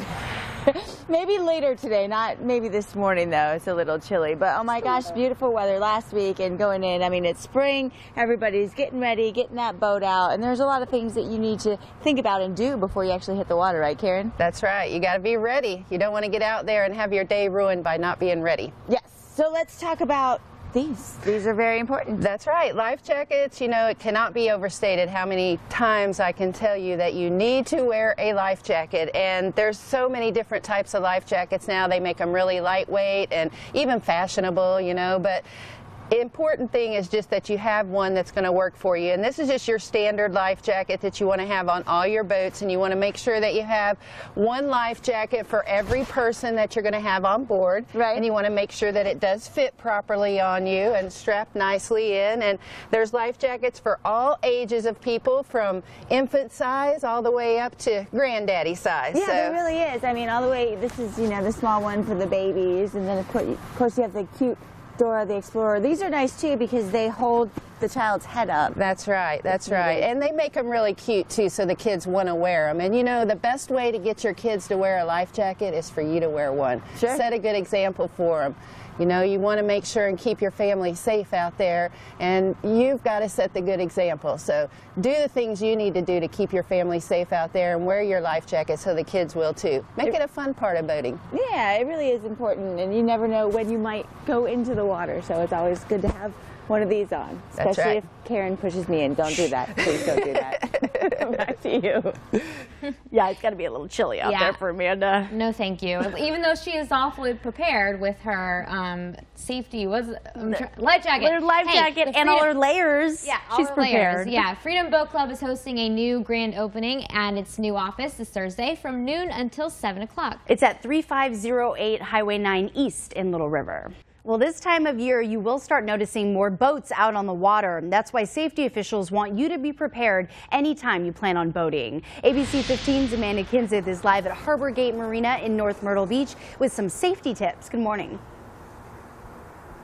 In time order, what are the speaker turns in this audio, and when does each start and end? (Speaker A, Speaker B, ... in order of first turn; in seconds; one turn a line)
Speaker A: 0.7-14.3
Speaker B: 14.4-18.7
Speaker A: 18.9-22.2
Speaker B: 22.2-35.5
Speaker B: 36.1-59.6
Speaker A: 47.9-48.2
Speaker A: 59.1-68.8
Speaker B: 68.8-91.2
Speaker A: 69.5-70.1
Speaker A: 91.3-102.2
Speaker B: 97.5-98.0
Speaker C: 103.1-105.3
Speaker D: 104.2-104.6
Speaker D: 105.3-112.5
Speaker C: 111.2-114.4
Speaker D: 113.2-120.4
Speaker C: 120.5-138.2